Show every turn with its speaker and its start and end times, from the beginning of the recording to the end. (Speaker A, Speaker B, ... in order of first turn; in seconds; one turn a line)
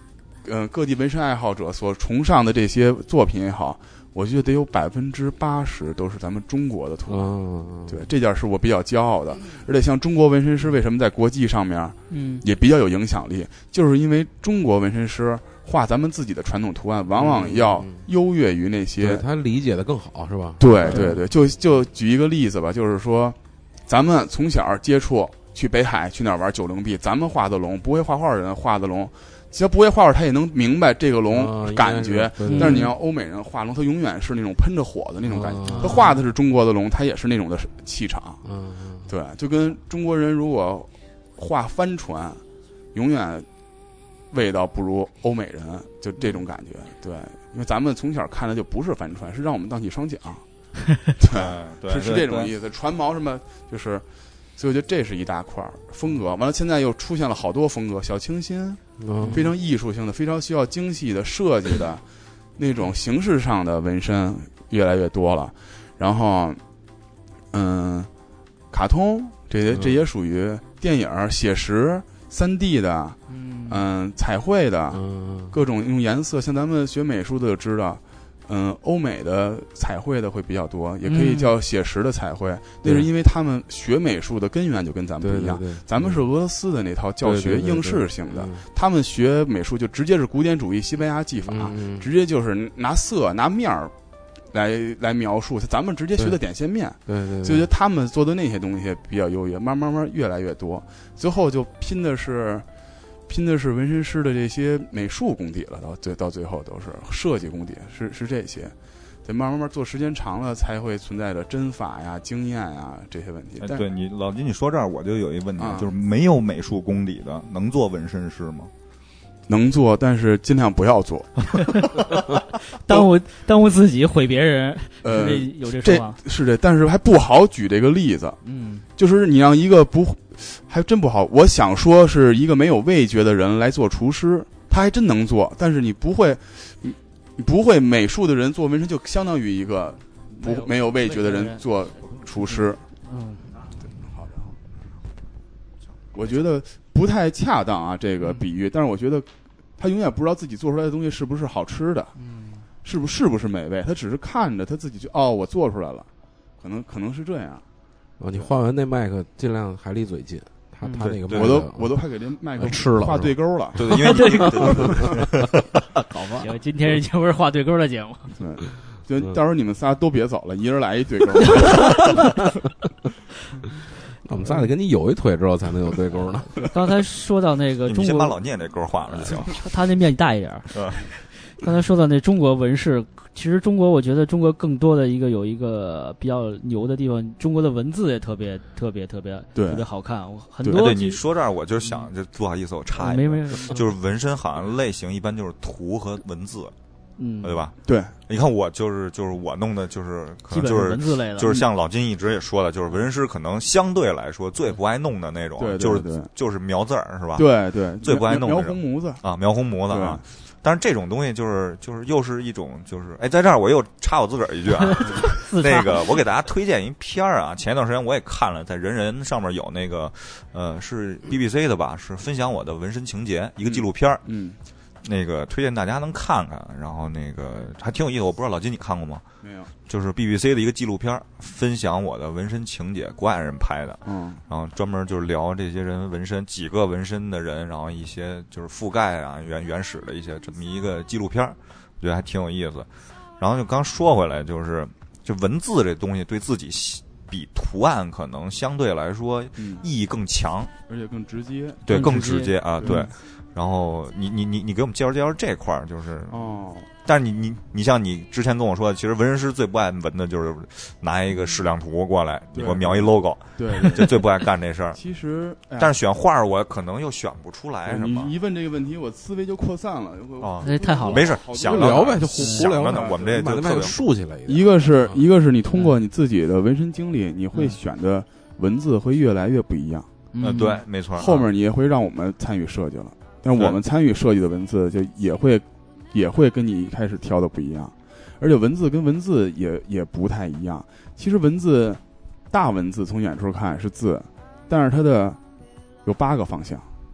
Speaker A: 0.4-7.3
Speaker B: 7.1-8.1
Speaker A: 7.9-19.2
Speaker C: 12.1-12.4
Speaker B: 17.2-18.1
Speaker B: 19.0-21.2
Speaker A: 20.6-38.4
Speaker C: 20.9-21.2
Speaker B: 31.3-32.9
Speaker C: 32.5-32.9
Speaker B: 35.3-36.0
Speaker C: 35.7-36.2
Speaker B: 38.4-39.1
Speaker A: 39.1-42.4
Speaker A: 42.9-43.5
Speaker A: 44.3-50.5
Speaker A: 51.1-54.0
Speaker D: 51.3-52.5
Speaker A: 54.6-62.0
Speaker B: 59.0-59.5
Speaker C: 59.2-59.5
Speaker A: 62.6-66.6
Speaker A: 67.5-68.1
Speaker A: 68.7-93.9
Speaker B: 69.7-70.0
Speaker C: 73.3-73.8
Speaker B: 74.9-75.6
Speaker C: 81.0-81.5
Speaker B: 82.8-83.1
Speaker B: 85.2-86.2
Speaker B: 87.2-88.7
Speaker B: 91.5-92.1
Speaker A: 94.5-102.7
Speaker B: 97.1-97.7
Speaker A: 103.3-113.8
Speaker D: 113.6-118.7
Speaker A: 115.6-115.9
Speaker A: 119.5-121.5
Speaker C: 121.6-121.9
Speaker C: 122.7-126.2
Speaker A: 125.0-128.4
Speaker C: 128.4-128.9
Speaker A: 129.0-142.8
Speaker C: 140.4-141.6
Speaker C: 142.1-143.6
Speaker A: 143.8-144.6
Speaker A: 146.1-152.2
Speaker C: 152.2-152.7
Speaker A: 152.8-156.1
Speaker A: 156.6-157.6
Speaker B: 158.2-162.0
Speaker C: 160.8-161.1
Speaker D: 161.0-161.6
Speaker A: 161.3-163.8
Speaker B: 162.6-163.3
Speaker D: 163.8-165.5
Speaker C: 163.9-164.8
Speaker B: 164.6-164.9
Speaker A: 164.7-165.0
Speaker B: 166.1-166.5
Speaker C: 166.4-168.3
Speaker A: 168.4-171.8
Speaker C: 171.6-172.1
Speaker B: 174.2-176.7
Speaker C: 176.7-178.4
Speaker D: 177.9-179.6
Speaker C: 179.2-191.2
Speaker D: 180.7-181.0
Speaker A: 189.6-189.8
Speaker D: 190.7-196.7
Speaker C: 193.0-193.9
Speaker C: 197.2-197.7
Speaker D: 197.4-197.8
Speaker A: 197.8-198.2
Speaker D: 198.3-207.5
Speaker C: 200.5-201.6
Speaker A: 205.6-206.3
Speaker A: 207.3-209.2
Speaker D: 208.0-224.2
Speaker A: 209.9-210.2
Speaker C: 214.8-216.1
Speaker A: 223.6-224.6
Speaker D: 225.0-229.2
Speaker A: 229.4-229.7
Speaker D: 229.9-250.7
Speaker A: 234.1-234.4
Speaker A: 249.6-249.8
Speaker A: 250.9-253.1
Speaker D: 251.9-256.4
Speaker C: 251.9-253.1
Speaker A: 256.3-256.9
Speaker D: 257.1-265.0
Speaker A: 262.5-264.3
Speaker A: 264.9-265.9
Speaker D: 265.8-268.3
Speaker A: 267.9-272.2
Speaker D: 270.4-274.0
Speaker C: 270.6-271.3
Speaker B: 271.6-275.2
Speaker C: 272.4-272.7
Speaker A: 272.8-273.7
Speaker A: 274.5-280.1
Speaker C: 280.3-280.8
Speaker D: 280.4-281.5
Speaker A: 281.2-295.4
Speaker A: 296.1-296.9